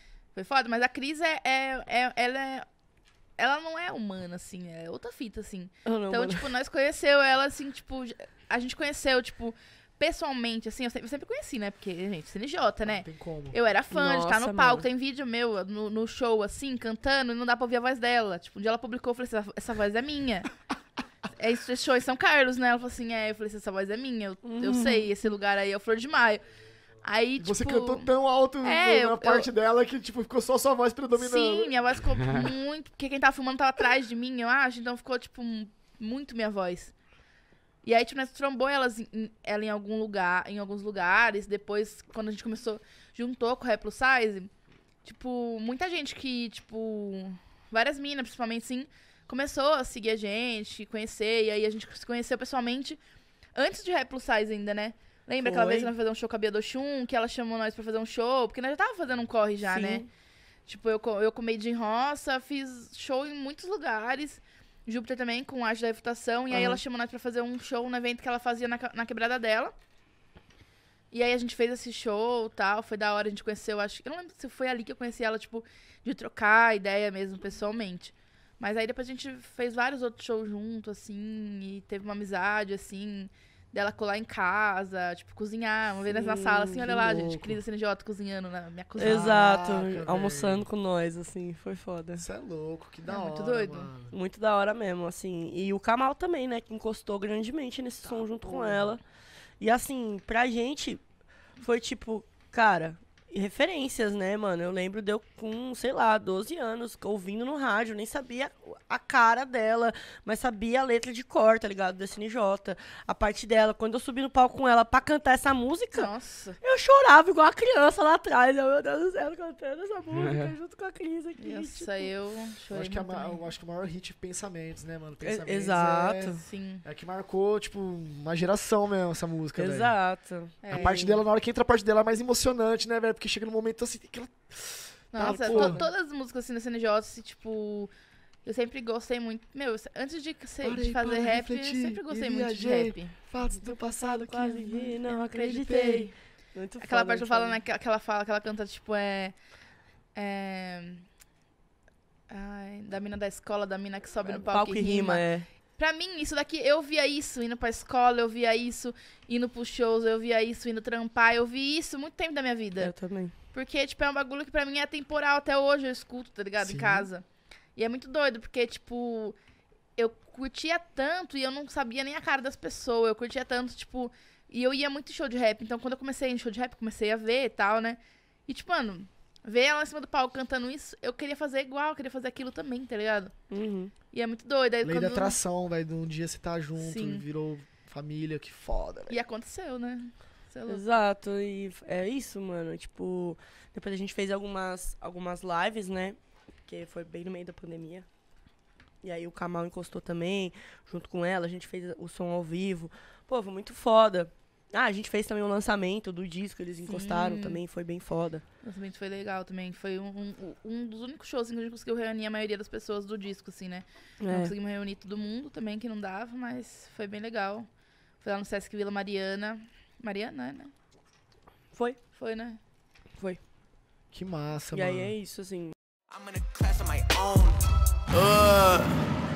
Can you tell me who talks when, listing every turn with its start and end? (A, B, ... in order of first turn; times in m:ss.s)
0:00.3-0:02.6 A
0:03.4-0:20.5 A
0:05.8-0:06.5 B
0:12.8-0:13.6 C
0:13.9-0:14.9 B
0:21.4-0:26.5 A
0:24.4-0:25.1 B
0:27.0-0:28.1 A
0:27.4-0:31.7 C
0:28.6-0:29.5 A
0:31.1-0:36.9 A
0:37.8-0:44.5 A
0:45.0-0:53.0 A
0:53.5-1:00.0 A
0:55.4-0:55.9 B
0:59.6-1:00.1 B
1:00.6-1:09.7 A
1:06.5-1:06.8 B
1:11.1-1:29.4 A
1:26.0-1:26.9 B
1:26.8-1:27.6 C
1:29.0-1:32.2 B
1:29.0-1:30.6 C
1:32.2-1:34.1 C
1:33.0-1:33.9 A
1:34.1-1:39.0 B
1:38.1-1:38.9 C
1:39.6-1:41.0 B
1:41.6-2:02.1 B
1:55.9-1:56.6 A
2:01.4-2:03.4 A
2:02.7-2:10.0 C
2:05.2-2:06.4 B
2:06.4-2:06.8 A
2:09.5-2:10.6 B
2:10.6-2:11.2 A
2:10.6-2:15.8 C
2:15.1-2:17.9 A
2:15.2-2:15.8 B
2:18.4-2:23.2 A
2:20.6-2:24.3 C
2:23.5-2:27.6 B
2:24.3-2:29.4 A
2:30.1-2:31.0 A
2:32.3-2:42.9 A
2:34.2-2:35.5 B
2:42.8-2:43.3 B
2:43.5-2:49.4 A
2:46.6-2:47.1 C
2:50.0-3:03.4 A
3:03.5-3:03.9 B
3:04.1-3:05.4 A
3:04.8-3:09.2 C
3:06.8-3:07.2 A
3:09.1-3:10.8 A
3:10.7-3:18.1 B
3:19.0-3:28.4 B
3:26.8-3:27.6 A
3:28.6-3:37.7 A
3:34.2-3:34.5 B
3:38.2-3:40.7 A
3:41.7-3:42.0 B
3:42.1-3:42.6 A
3:44.1-3:45.1 C
3:44.7-3:45.7 B
3:46.1-3:47.6 D
3:48.1-3:49.0 D